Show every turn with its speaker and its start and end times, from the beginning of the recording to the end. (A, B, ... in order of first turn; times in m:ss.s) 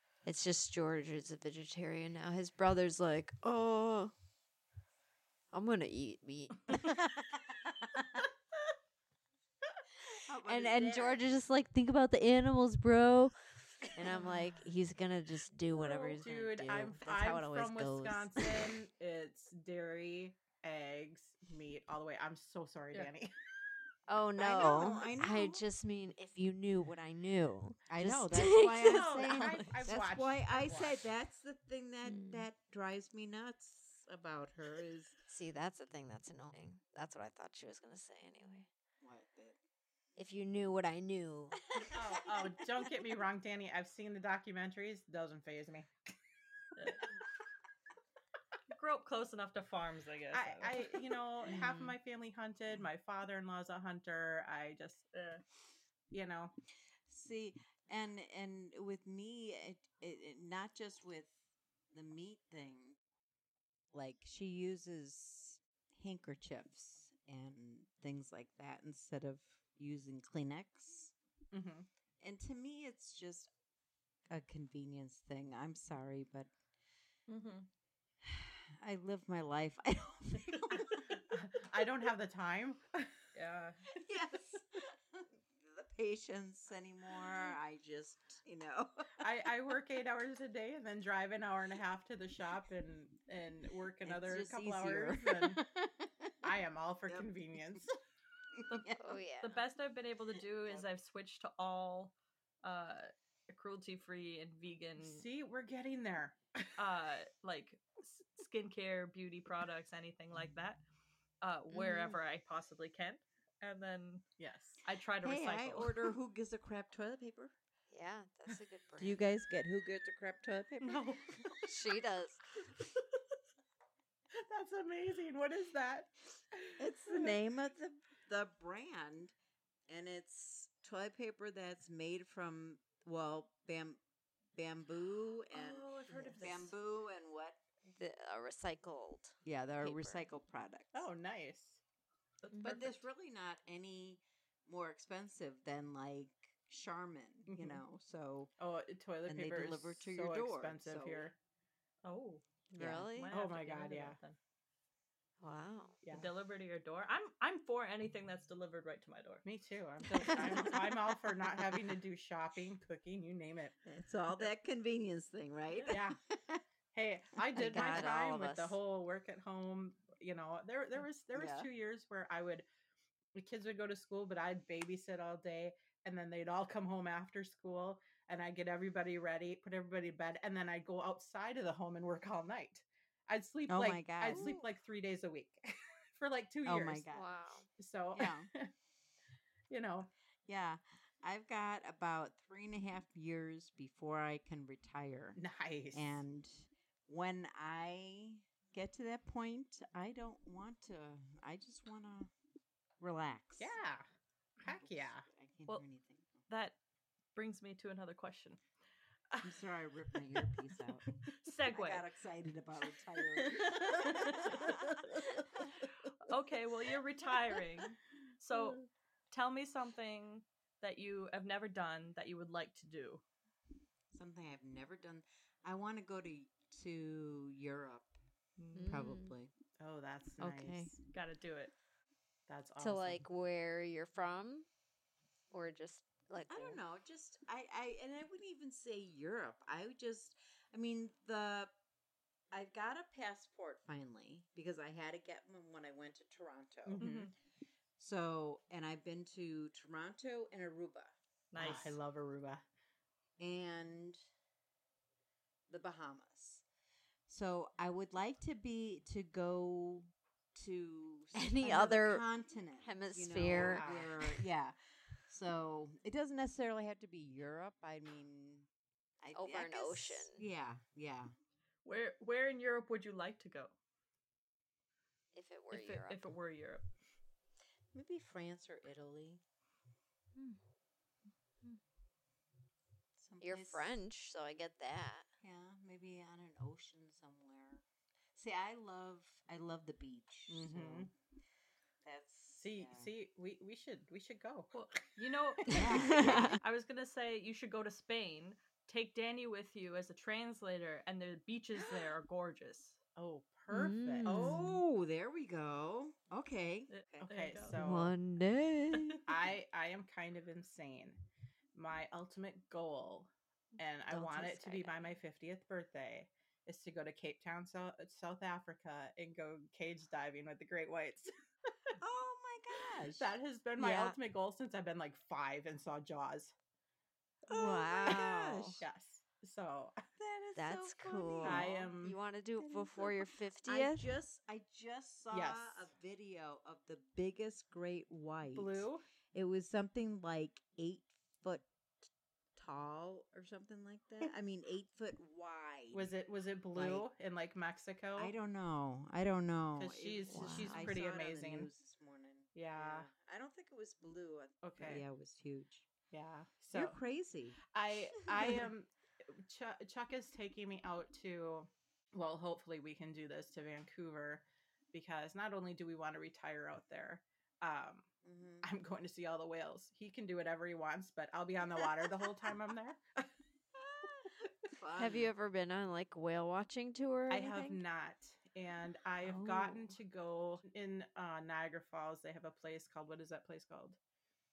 0:00.2-0:04.1 A
0:05.5-0:06.9 A
0:06.8-0:08.2 B
0:10.3-0:11.2 B
0:10.4-0:18.7 A
0:15.7-0:23.3 C
0:24.1-0:29.5 A
0:24.4-0:25.6 B
0:27.9-0:35.2 B
0:28.8-0:29.6 D
0:29.0-0:31.0 C
0:32.0-0:32.5 A
0:35.3-0:38.7 A
0:39.0-0:39.6 B
0:40.2-0:41.6 A
0:41.8-0:42.5 B
0:41.9-0:45.9 C
0:46.8-0:47.1 D
0:48.7-0:51.0 D
0:50.3-0:55.0 C
0:51.5-0:51.9 A
0:55.1-0:55.4 D
0:56.1-0:56.5 C
0:57.1-1:01.3 B
1:01.9-1:03.0 B
1:03.9-1:11.1 B
1:11.5-1:11.9 C
1:12.2-1:13.5 B
1:14.3-1:16.5 B
1:17.3-1:17.7 D
1:18.2-1:21.2 B
1:21.3-1:23.2 C
1:23.4-1:23.8 D
1:23.9-1:29.3 B
1:29.2-1:35.6 C
1:34.0-1:36.5 B
1:36.4-1:38.0 C
1:37.1-1:37.9 B
1:38.5-1:39.2 B
1:39.0-1:39.6 A
1:39.4-1:45.2 D
1:45.0-1:46.6 C
1:46.8-1:50.8 D
1:51.4-1:54.2 D
1:51.7-1:52.2 A
1:54.4-1:54.8 C
1:54.8-1:56.0 D
1:55.2-1:57.5 B
1:57.9-1:59.2 A
1:59.0-2:01.1 B
2:00.8-2:01.3 D
2:01.6-2:02.4 A
2:04.4-2:07.4 C
2:06.8-2:09.3 B
2:09.9-2:14.0 B
2:14.6-2:17.6 B
2:15.5-2:16.7 D
2:16.0-2:16.7 C
2:18.0-2:20.2 A
2:19.4-2:21.1 B
2:20.9-2:21.8 C
2:22.4-2:23.0 D
2:22.6-2:28.5 B
2:27.5-2:27.8 C
2:28.6-2:31.4 C
2:29.3-2:31.3 B
2:32.0-2:32.4 D
2:32.7-2:33.3 A
2:32.8-2:33.1 B
2:33.2-2:34.4 D
2:33.3-2:34.2 C
2:35.4-2:36.0 A
2:36.0-2:36.3 C
2:36.1-2:39.4 D
2:39.4-2:43.8 C
2:40.2-2:40.8 B
2:40.3-2:40.7 A
2:43.8-2:46.6 B
2:45.7-2:46.0 D
2:45.9-2:46.2 C
2:46.9-2:52.6 C
2:47.6-2:48.8 A
2:51.4-2:51.7 B
2:53.4-3:07.1 C
3:03.7-3:04.6 B
3:06.6-3:07.2 B
3:07.1-3:07.7 A
3:07.8-3:08.7 C
3:08.2-3:08.5 B
3:09.7-3:10.1 C
3:10.5-3:15.4 B
3:15.4-3:16.2 C
3:15.9-3:22.3 B
3:23.0-3:23.8 B
3:23.6-3:24.0 C
3:24.6-3:25.3 C
3:24.6-3:26.3 B
3:26.5-3:26.8 D
3:27.4-3:28.6 D
3:29.4-3:31.1 B
3:31.3-3:32.0 D
3:31.7-3:35.7 B
3:33.6-3:33.9 C
3:33.7-3:35.2 D
3:34.7-3:35.4 C
3:36.2-3:43.2 D
3:38.6-3:38.8 C
3:44.1-3:48.2 B
3:48.6-3:49.0 D
3:48.8-3:49.3 A
3:48.8-3:49.5 B
3:49.8-3:51.0 C
3:50.4-3:50.9 A
3:51.1-3:51.7 D
3:52.5-3:53.2 C
3:52.8-3:54.7 A
3:55.5-3:56.8 A
3:56.5-4:01.7 B
4:02.5-4:07.1 B
4:06.9-4:07.3 C
4:07.0-4:07.3 D
4:08.0-4:11.1 B
4:11.5-4:12.0 D
4:11.6-4:12.6 C
4:13.4-4:14.2 B
4:15.7-4:16.6 B
4:17.3-4:24.8 B
4:21.4-4:22.2 A
4:22.8-4:24.4 A
4:23.4-4:24.1 C
4:25.3-4:28.7 B
4:29.2-4:31.3 B
4:29.4-4:30.4 A
4:31.8-4:33.7 D
4:35.3-4:36.3 A
4:35.7-4:36.8 D
4:37.9-4:39.4 B
4:43.2-4:43.9 B
4:43.4-4:45.2 A
4:45.4-4:51.1 B
4:50.5-4:51.1 C
4:52.0-4:53.1 B
4:52.6-4:54.7 C
4:54.7-5:03.0 D
4:55.7-4:56.6 B
4:56.0-4:56.6 A
5:03.2-5:04.8 C
5:03.7-5:04.8 A
5:04.2-5:07.3 B
5:06.9-5:07.8 D
5:07.2-5:08.1 C
5:07.8-5:09.2 A
5:08.9-5:09.2 D
5:09.3-5:11.2 C
5:11.8-5:21.3 C
5:14.1-5:15.2 A
5:22.0-5:23.3 B
5:23.1-5:26.5 C
5:23.8-5:24.2 A
5:27.5-5:28.8 B
5:27.5-5:28.8 A
5:28.8-5:30.0 C
5:30.2-5:31.9 B
5:30.6-5:34.1 A
5:31.4-5:32.2 C
5:32.6-5:46.1 B
5:35.3-5:35.9 C
5:38.6-5:39.0 C
5:45.9-5:48.3 C
5:46.7-5:47.1 B
5:48.2-5:55.9 B
5:49.8-5:51.7 C
5:50.3-5:51.0 A
5:52.6-5:53.1 C
5:54.6-5:55.0 C
5:56.1-5:57.0 C
5:56.7-5:57.6 B
5:57.7-6:08.1 C
6:08.2-6:08.7 B
6:08.6-6:13.3 C
6:13.8-6:15.3 B
6:15.0-6:17.8 A
6:17.3-6:24.0 C
6:19.2-6:20.0 A